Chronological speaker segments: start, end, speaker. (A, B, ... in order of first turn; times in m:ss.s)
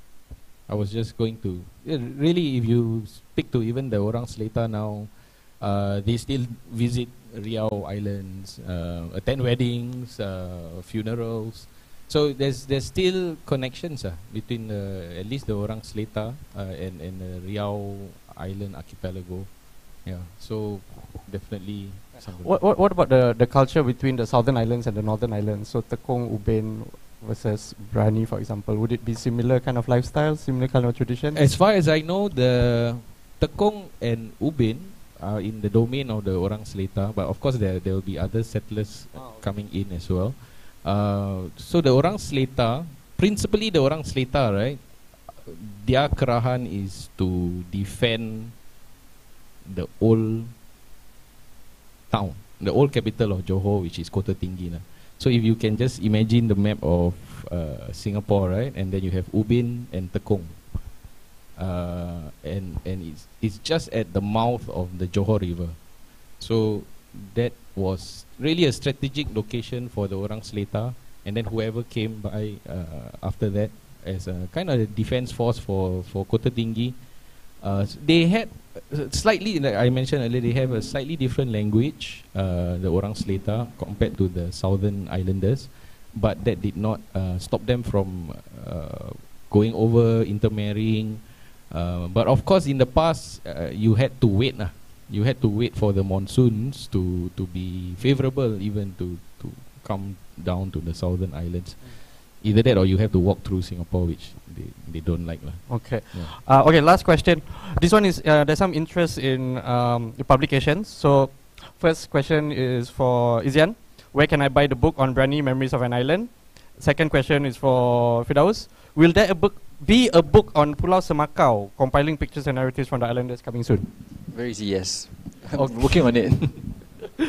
0:00.7-0:22.6 A
0:22.4-0:31.4 B
0:31.3-0:48.6 A
0:39.1-0:39.5 B
0:49.6-0:50.5 A
0:52.1-1:00.8 A
1:01.6-1:05.8 A
1:06.4-1:17.0 A
1:17.6-1:46.3 A
1:45.7-2:03.9 B
2:04.3-2:06.7 C
2:05.6-2:06.6 B